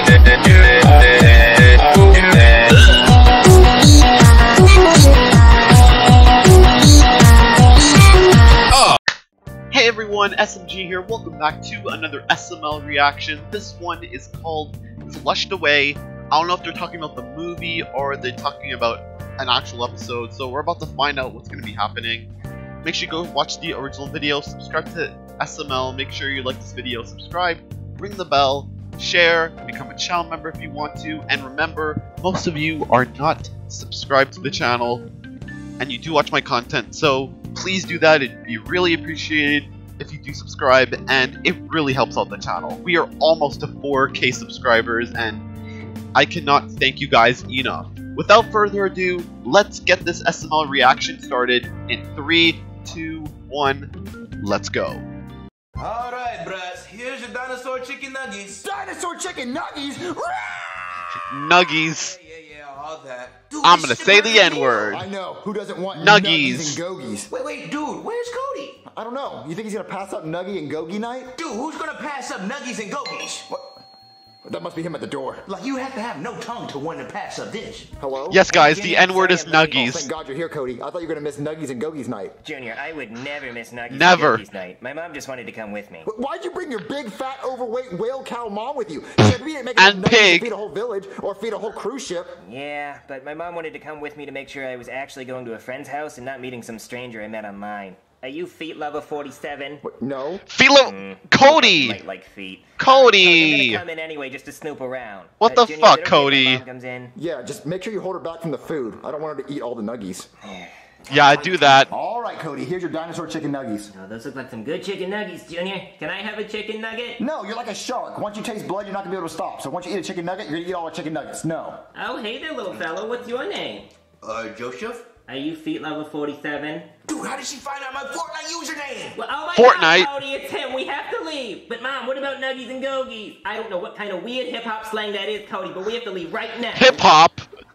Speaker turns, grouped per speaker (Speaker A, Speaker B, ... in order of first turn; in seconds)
Speaker A: 2.2-2.8, 8.7-9.0, 9.7-22.3, 22.8-35.1, 35.8-45.5, 46.1-55.0, 61.3-62.2, 63.6-65.0, 66.0-66.8, 78.3-80.1, 83.9-84.4, 89.8-90.5, 100.5-102.0, 102.8-103.8, 105.4-106.6, 111.1-111.9, 129.5-130.1, 136.7-137.4
Speaker B: 55.8-58.6, 61.8-64.9, 67.3-68.8, 71.4-73.5, 75.5-77.9, 124.2-125.1, 127.1-129.2
Speaker C: 58.5-61.2, 64.9-67.3, 68.9-71.3, 73.5-73.8, 74.5-75.5, 78.0-78.4, 79.8-82.4, 86.0-92.4, 99.8-100.5, 107.2-110.3, 111.9-113.9, 117.2-121.8
Speaker D: 78.5-80.0, 82.4-86.1, 92.4-99.8, 100.8-107.1, 110.4-110.7, 111.3-111.8, 113.9-117.2, 121.9-123.9, 125.3-126.9, 129.1-137.1